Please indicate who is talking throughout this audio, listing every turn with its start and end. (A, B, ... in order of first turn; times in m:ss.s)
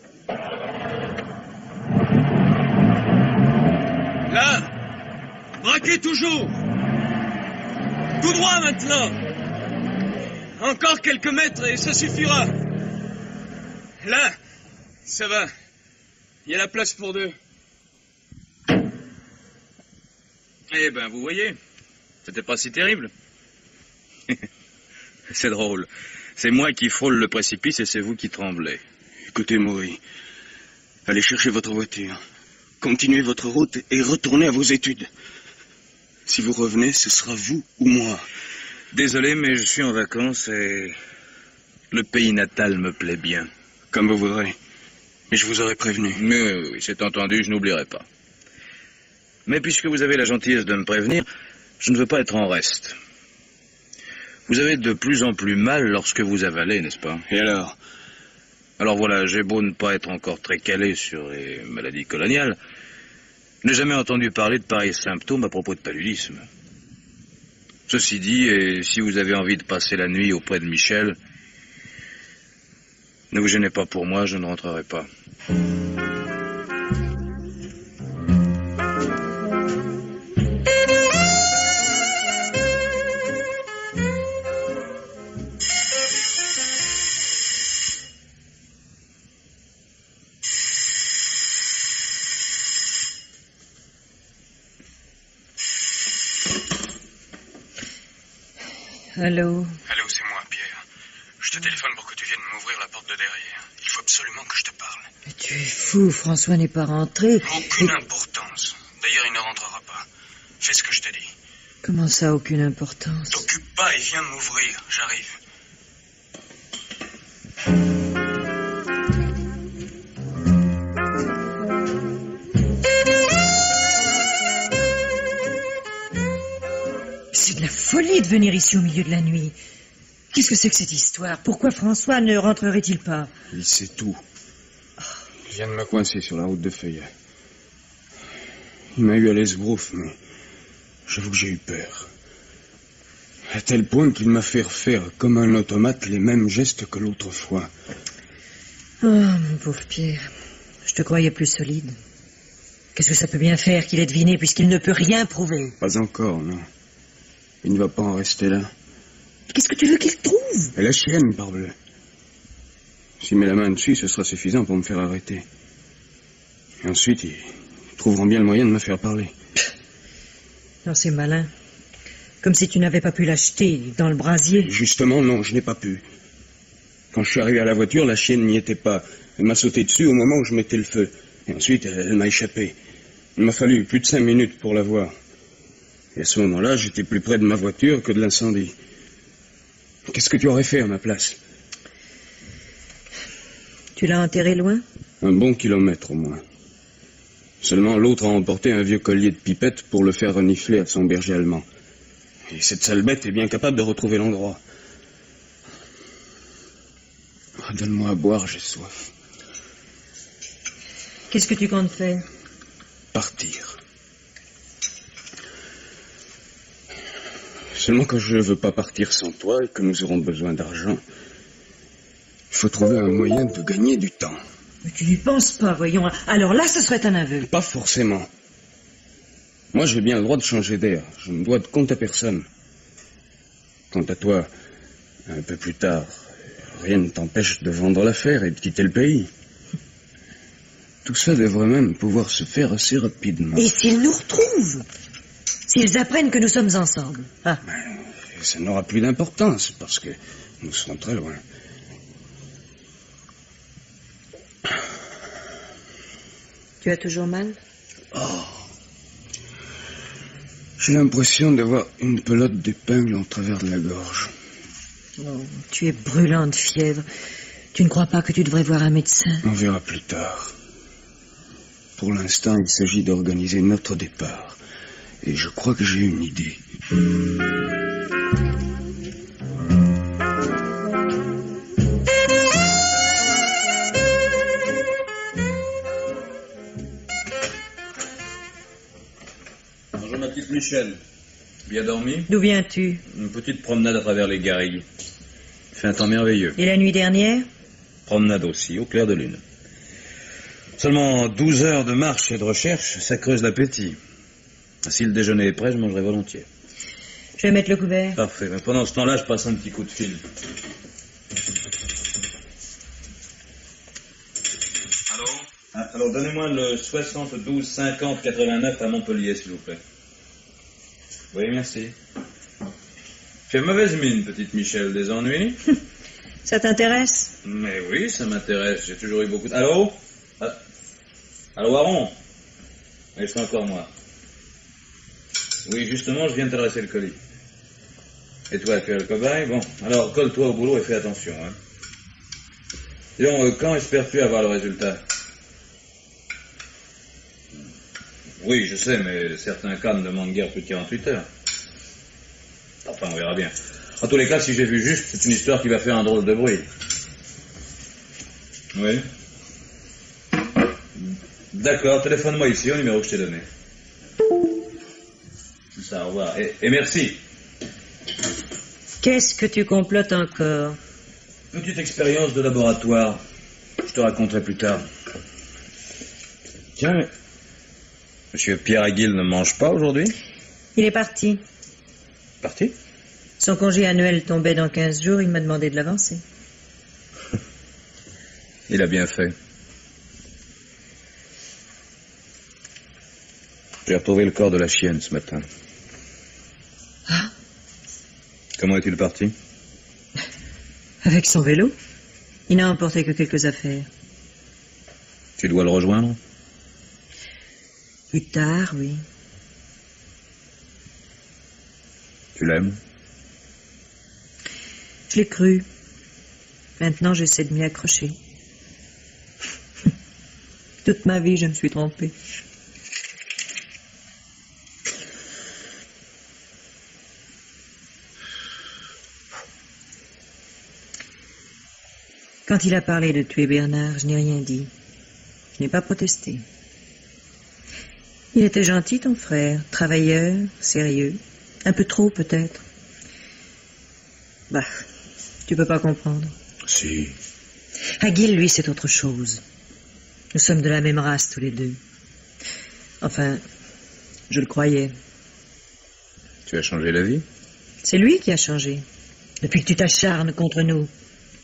0:04.3-0:04.7 A
0:05.6-0:06.6 A
0:08.2-0:09.2 A
0:10.6-0:12.5 A
0:14.0-0:14.4 A
0:15.1-0:15.5 A
0:16.5-0:17.4 A
0:20.7-0:21.6 B
0:22.2-0:23.1 B
0:25.3-0:28.8 B
0:29.3-0:30.0 A
0:31.1-0:32.2 A
0:32.8-0:35.1 A
0:36.3-0:38.2 A
0:38.9-0:41.0 B
0:41.9-0:43.5 B
0:43.9-0:44.6 A
0:45.3-0:46.2 A
0:46.2-0:48.0 B
0:49.5-0:51.3 B
0:51.8-0:53.0 B
0:54.5-0:57.2 B
0:57.3-0:57.8 A
0:58.8-1:02.6 B
1:03.6-1:06.4 B
1:07.9-1:11.2 B
1:13.3-1:15.1 B
1:39.2-1:39.8 C
1:39.9-1:40.8 A
1:41.4-1:45.1 A
1:45.3-1:47.9 C
1:47.4-1:50.1 A
1:50.6-1:51.3 A
1:51.8-1:53.4 C
1:53.3-1:55.4 A
2:07.3-2:09.6 C
2:10.3-2:13.3 C
2:13.5-2:14.2 A
2:15.5-2:17.1 A
2:18.9-2:20.2 A
2:21.1-2:22.1 A
2:23.5-2:27.7 A
2:29.0-2:30.3 C
2:30.9-2:32.0 C
2:33.0-2:35.8 C
2:35.8-2:36.7 A
2:37.6-2:38.7 A
2:39.5-2:40.7 C
2:40.8-2:41.8 A
2:43.2-2:45.4 A
2:46.8-2:49.3 A
2:50.8-2:51.5 C
2:52.4-2:54.7 C
2:54.6-2:56.0 A
2:57.1-3:02.8 A
3:03.4-3:05.2 A
3:06.2-3:08.8 A
3:10.1-3:11.4 A
3:14.0-3:14.8 C
3:15.2-3:16.4 A
3:17.6-3:21.7 A
3:22.5-3:24.6 A
3:27.6-3:29.0 A
3:31.3-3:32.2 C
3:33.1-3:33.8 A
3:37.8-3:41.0 A
3:42.5-3:44.4 A
3:44.8-3:47.5 C
3:47.4-3:48.3 A
3:49.7-3:52.5 A
3:53.9-3:54.5 A
3:55.3-3:56.2 A
3:56.8-3:59.3 A
4:01.0-4:03.6 A
4:03.6-4:04.9 C
4:05.7-4:07.6 C
4:07.7-4:11.4 A
4:16.8-4:17.6 C
4:18.1-4:18.6 A
4:20.8-4:24.3 A
4:25.2-4:27.1 C
4:27.7-4:29.4 C
4:29.4-4:30.5 A
4:32.0-4:34.6 A
4:35.2-4:36.6 A
4:50.0-4:51.0 B
4:51.7-4:52.3 B
4:52.3-4:53.0 C
4:53.1-4:54.8 B
4:55.7-4:56.6 B
4:56.6-4:57.5 C
4:58.1-4:59.4 B
5:00.8-5:04.0 B
5:04.8-5:06.5 B
5:07.4-5:08.2 C
5:08.2-5:10.2 B
5:15.1-5:19.8 B
5:21.3-5:22.0 B
5:23.5-5:25.6 B
5:26.4-5:27.3 C
5:27.4-5:30.6 B
5:31.6-5:32.2 B
5:33.2-5:33.9 B
5:35.6-5:37.2 B
5:38.5-5:41.6 B
5:43.2-5:45.0 B
5:48.4-5:51.3 B
5:52.8-5:56.6 B
5:58.7-5:59.0 B
6:01.5-6:03.5 B
6:05.8-6:07.2 B
6:09.0-6:10.8 C
6:11.5-6:13.2 B
6:13.8-6:14.8 B
6:16.8-6:17.1 B
6:18.3-6:20.2 B
6:20.8-6:21.4 C
6:22.4-6:22.7 B
6:23.4-6:26.2 C
6:28.7-6:29.4 B
6:33.9-6:35.4 B
6:38.6-6:39.3 B
6:41.0-6:41.7 C
6:42.5-6:43.9 C
6:45.4-6:46.2 B
6:48.1-6:49.0 C
6:52.4-6:52.8 B
6:55.1-6:55.7 C
6:56.8-6:58.2 C
7:00.8-7:02.1 C
7:12.5-7:14.7 C
7:15.6-7:16.4 C
7:18.3-7:22.6 C
7:24.5-7:24.8 C
7:25.5-7:26.3 C
7:26.7-7:27.2 B
7:28.0-7:29.4 C
7:30.3-7:31.8 C
7:33.0-7:33.4 C
7:34.3-7:34.9 C
7:36.5-7:37.2 B
7:37.8-7:38.8 C
7:39.4-7:40.9 C